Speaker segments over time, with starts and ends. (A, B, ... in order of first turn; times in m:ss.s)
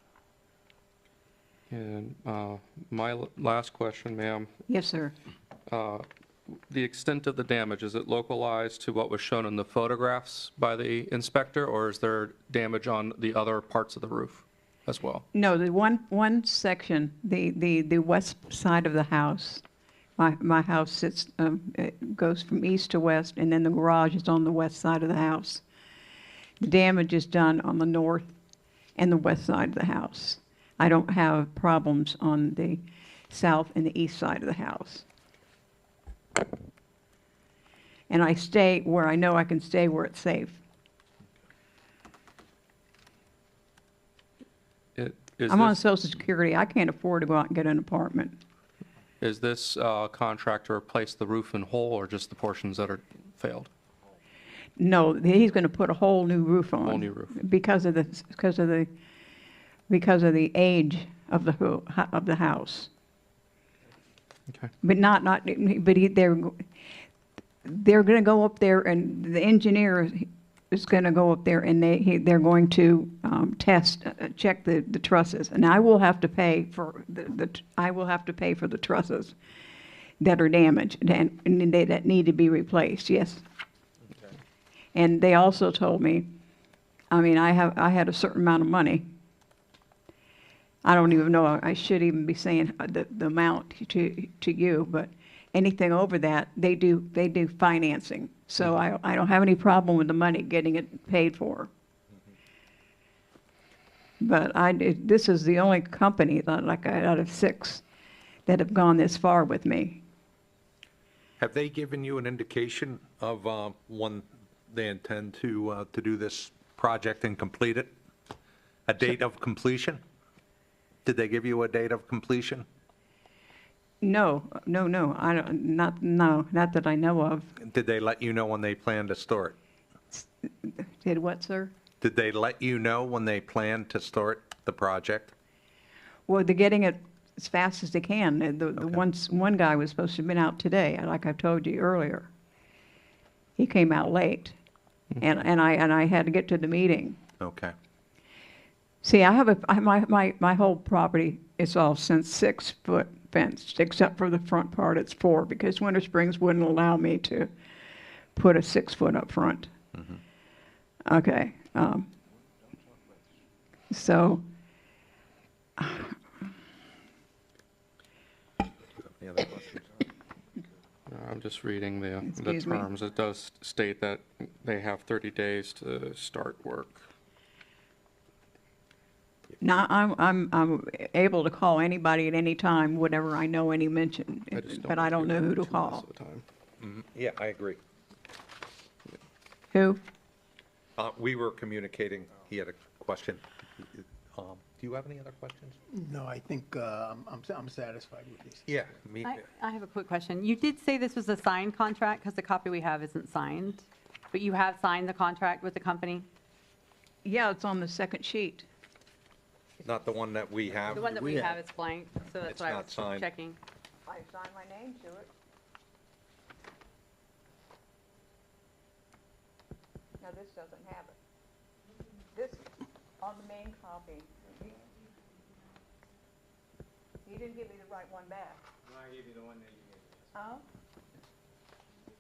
0:01.7-0:04.5 A
0:04.7-0:05.1 B
0:05.7-0:15.2 A
0:15.3-0:19.6 B
0:20.2-0:25.6 B
0:26.6-0:28.3 B
0:29.0-0:35.0 B
0:38.1-0:40.6 B
0:45.0-0:45.8 A
0:45.5-0:48.4 B
0:49.2-0:53.7 A
0:54.8-0:58.9 B
0:56.8-0:57.4 A
0:59.9-1:02.9 B
1:04.8-1:06.7 B
1:07.6-1:19.4 B
1:20.2-1:23.4 B
1:25.0-1:26.3 B
1:27.1-1:29.0 B
1:30.8-1:41.7 B
1:44.2-1:47.8 B
1:48.5-1:50.0 B
1:51.4-1:57.9 C
1:58.9-2:00.0 C
2:01.0-2:02.6 C
2:04.0-2:07.5 B
2:07.6-2:09.6 C
2:10.1-2:11.7 B
2:12.0-2:15.3 C
2:16.3-2:22.3 B
2:23.6-2:24.6 B
2:25.2-2:27.2 B
2:27.4-2:27.7 C
2:29.0-2:37.5 B
2:38.4-2:39.7 B
2:41.0-2:42.1 B
2:43.9-2:44.4 B
2:45.8-2:46.2 B
2:49.0-2:49.9 C
2:51.1-2:57.0 A
2:52.3-2:52.9 B
2:59.6-3:06.1 B
3:04.5-3:06.4 A
3:06.8-3:07.8 C
3:09.7-3:10.0 B
3:11.0-3:15.8 C
3:15.9-3:18.6 D
3:18.7-3:19.4 C
3:19.2-3:26.3 E
3:27.2-3:28.7 B
3:29.8-3:31.6 C
3:30.9-3:33.6 E
3:32.4-3:33.3 C
3:34.1-3:35.3 B
3:40.2-3:41.2 B
3:42.3-3:44.7 B
3:47.2-3:48.6 B
3:50.3-3:50.6 B